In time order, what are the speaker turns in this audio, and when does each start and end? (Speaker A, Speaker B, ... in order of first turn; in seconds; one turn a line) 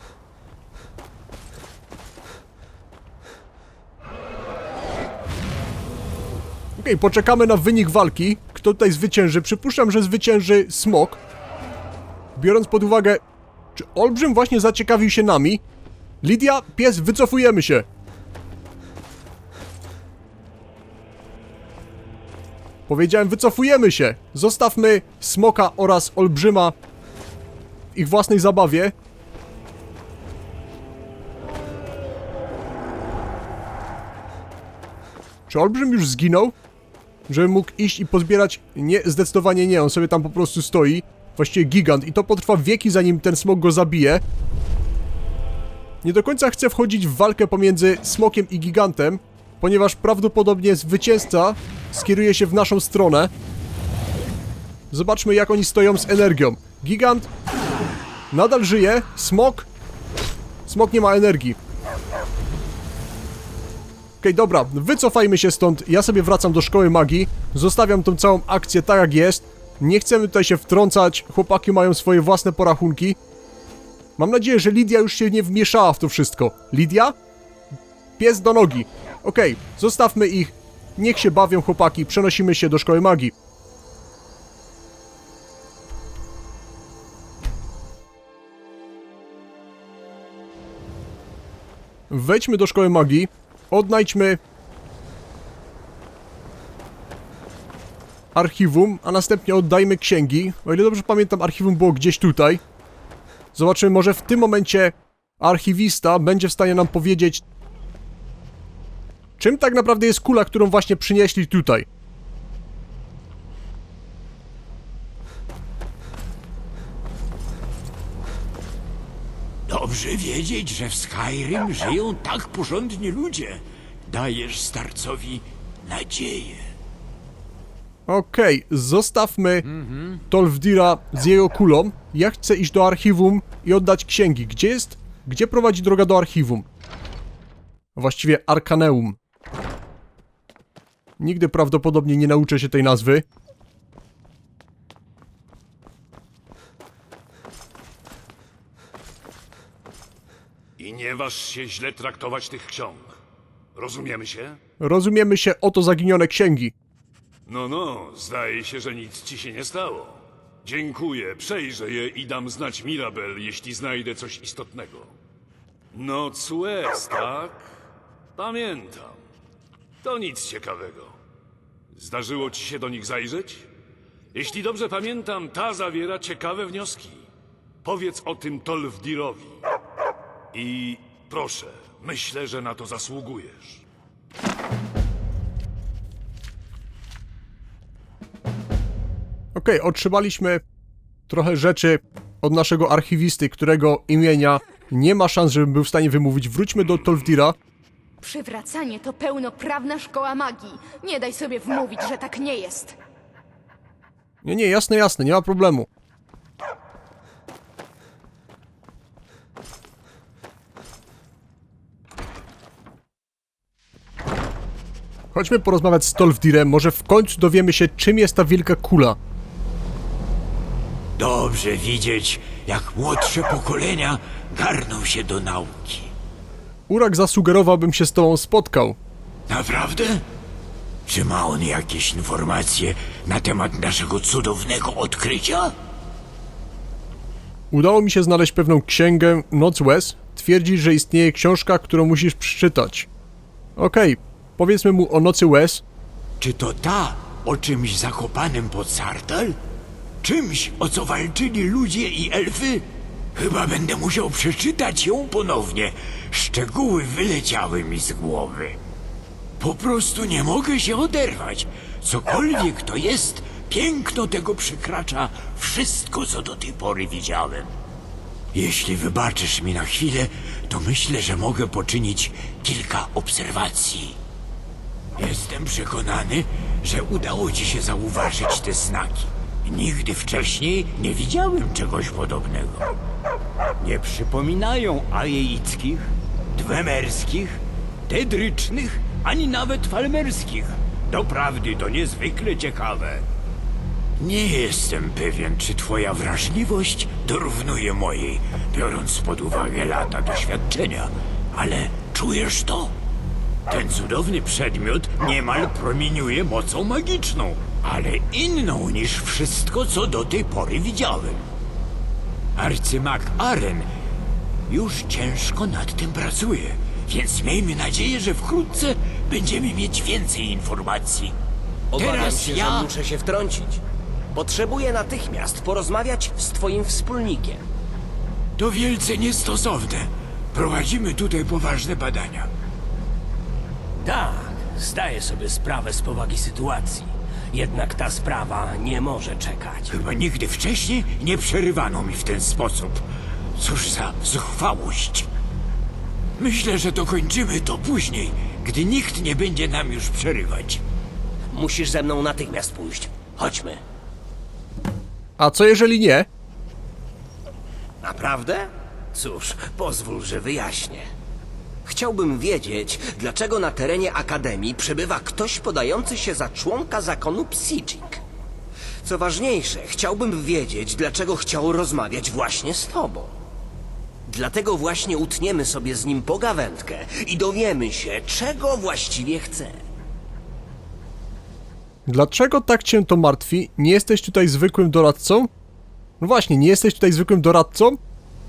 Speaker A: 6.8-11.2
Speaker A: 12.3-13.2
Speaker A: 13.7-15.6
Speaker A: 16.2-17.9
Speaker A: 22.9-26.7
Speaker A: 27.9-28.9
Speaker A: 35.5-36.5
Speaker A: 37.3-44.2
Speaker A: 46.0-53.3
Speaker A: 54.9-57.3
Speaker A: 58.3-59.7
Speaker A: 60.6-61.6
Speaker A: 64.2-73.2
Speaker A: 74.2-77.1
Speaker A: 78.2-83.3
Speaker A: 92.1-94.4
Speaker A: 98.3-102.6
Speaker A: 103.5-107.4
Speaker A: 109.4-111.9
Speaker B: 119.7-126.7
Speaker A: 128.1-129.7
Speaker B: 129.7-130.2
Speaker A: 130.3-136.7
Speaker A: 137.9-139.2
Speaker A: 141.2-143.2
Speaker C: 150.8-153.2
Speaker C: 153.7-154.6
Speaker A: 154.8-156.7
Speaker C: 157.5-165.1
Speaker C: 165.9-167.7
Speaker C: 168.3-169.2
Speaker C: 170.0-171.2
Speaker C: 171.9-173.7
Speaker C: 174.3-177.2
Speaker C: 177.8-179.6
Speaker C: 180.5-183.8
Speaker A: 189.5-190.6
Speaker A: 191.3-197.6
Speaker D: 198.2-202.9
Speaker A: 204.4-205.9
Speaker A: 215.3-219.2
Speaker B: 221.2-226.1
Speaker A: 226.9-229.0
Speaker B: 229.5-230.2
Speaker B: 231.1-235.7
Speaker A: 237.7-243.1
Speaker A: 243.8-245.8
Speaker B: 246.4-249.6
Speaker B: 250.2-258.8
Speaker B: 259.6-267.7
Speaker B: 268.5-274.2
Speaker B: 275.2-282.9
Speaker B: 283.8-293.2
Speaker B: 294.2-302.9
Speaker B: 303.7-311.5
Speaker B: 312.6-313.9
Speaker B: 314.7-321.3
Speaker E: 321.9-323.8
Speaker B: 322.0-322.9
Speaker E: 324.3-327.6
Speaker B: 328.6-332.5
Speaker E: 334.0-340.0
Speaker B: 339.9-343.0
Speaker B: 343.6-345.3
Speaker B: 346.4-350.8
Speaker E: 351.5-353.8
Speaker A: 355.4-356.3
Speaker E: 358.0-361.1
Speaker E: 361.8-368.2
Speaker E: 369.0-373.3
Speaker E: 374.2-379.8
Speaker A: 382.1-385.5
Speaker A: 386.2-388.0